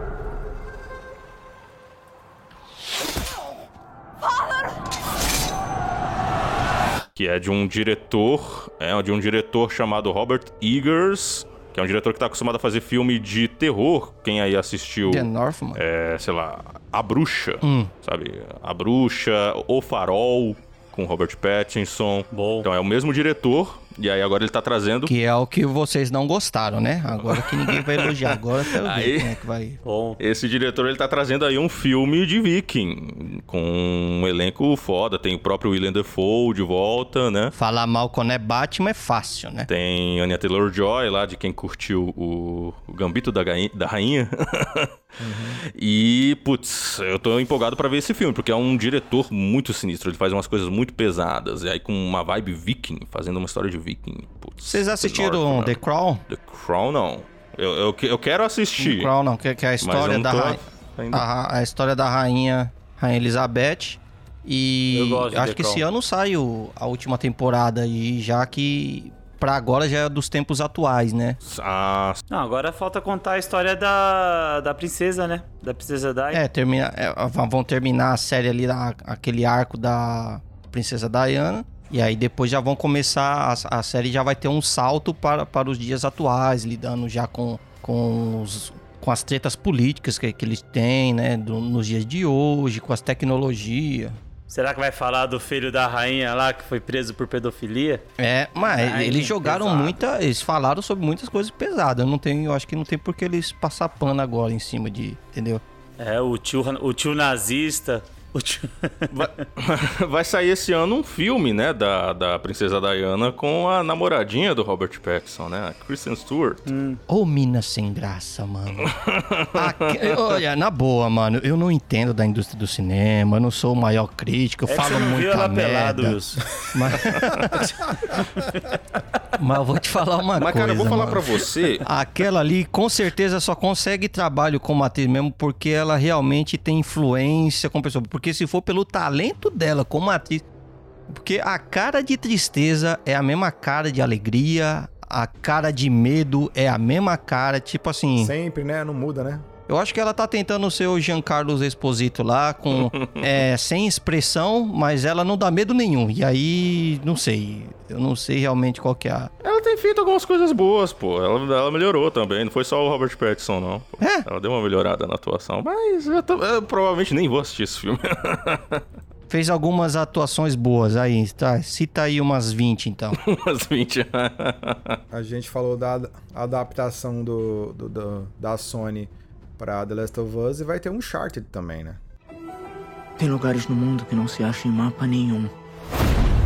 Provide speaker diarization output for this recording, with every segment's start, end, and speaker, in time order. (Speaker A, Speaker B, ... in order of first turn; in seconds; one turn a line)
Speaker A: 7.2-25.1
Speaker B: 15.1-15.8
Speaker B: 17.6-17.9
Speaker C: 22.3-22.7
Speaker B: 25.0-29.8
Speaker A: 27.1-29.3
Speaker C: 29.8-30.2
Speaker A: 30.2-37.5
Speaker B: 37.5-39.7
Speaker A: 39.7-44.9
Speaker D: 45.2-45.6
Speaker A: 45.7-59.1
Speaker B: 54.7-56.2
Speaker B: 58.8-60.6
Speaker A: 59.8-61.2
Speaker B: 61.1-71.4
Speaker C: 64.9-65.8
Speaker A: 71.4-72.2
Speaker C: 72.3-76.4
Speaker B: 76.3-94.2
Speaker C: 94.5-98.0
Speaker B: 98.2-105.6
Speaker C: 98.6-100.0
Speaker C: 106.0-109.2
Speaker A: 109.1-116.6
Speaker C: 116.7-117.0
Speaker B: 117.1-118.9
Speaker A: 118.8-120.0
Speaker B: 119.5-126.2
Speaker C: 124.7-126.4
Speaker B: 126.7-127.7
Speaker B: 129.4-140.4
Speaker A: 130.4-131.8
Speaker B: 141.1-148.3
Speaker D: 148.2-149.4
Speaker B: 149.7-159.3
Speaker A: 152.8-153.2
Speaker A: 159.4-168.8
Speaker B: 169.3-173.2
Speaker A: 173.2-175.0
Speaker D: 175.1-182.0
Speaker E: 183.2-185.5